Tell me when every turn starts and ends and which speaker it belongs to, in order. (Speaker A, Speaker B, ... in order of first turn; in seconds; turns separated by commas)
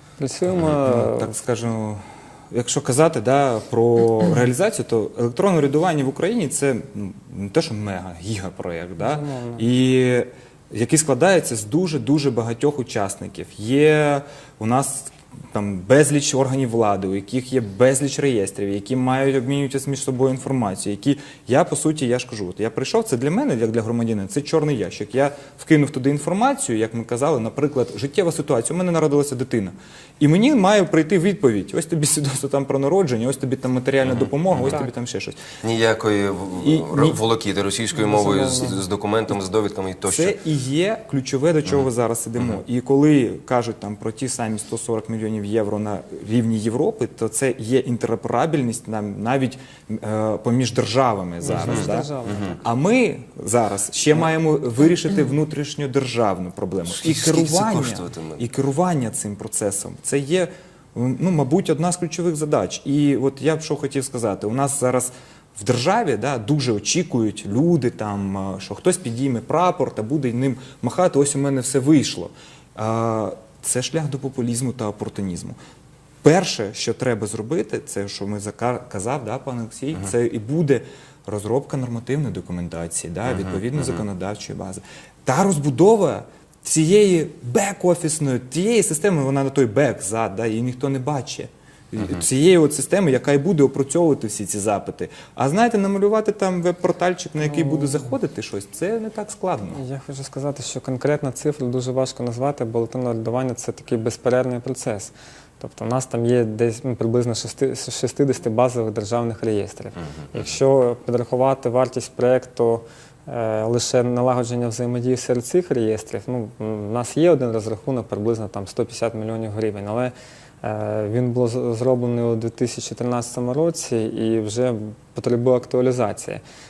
Speaker A: 0.2-1.3, Speaker B: 0.5-35.4, Speaker A: 9.0-9.7, Speaker C: 34.1-34.7, Speaker A: 34.6-34.9, Speaker C: 35.6-40.4, Speaker B: 36.6-37.2, Speaker A: 38.1-38.8, Speaker B: 40.0-75.6, Speaker A: 51.4-52.6, Speaker C: 51.6-52.5, Speaker C: 56.9-58.4, Speaker B: 76.2-99.8, Speaker A: 97.4-98.0, Speaker A: 99.7-126.4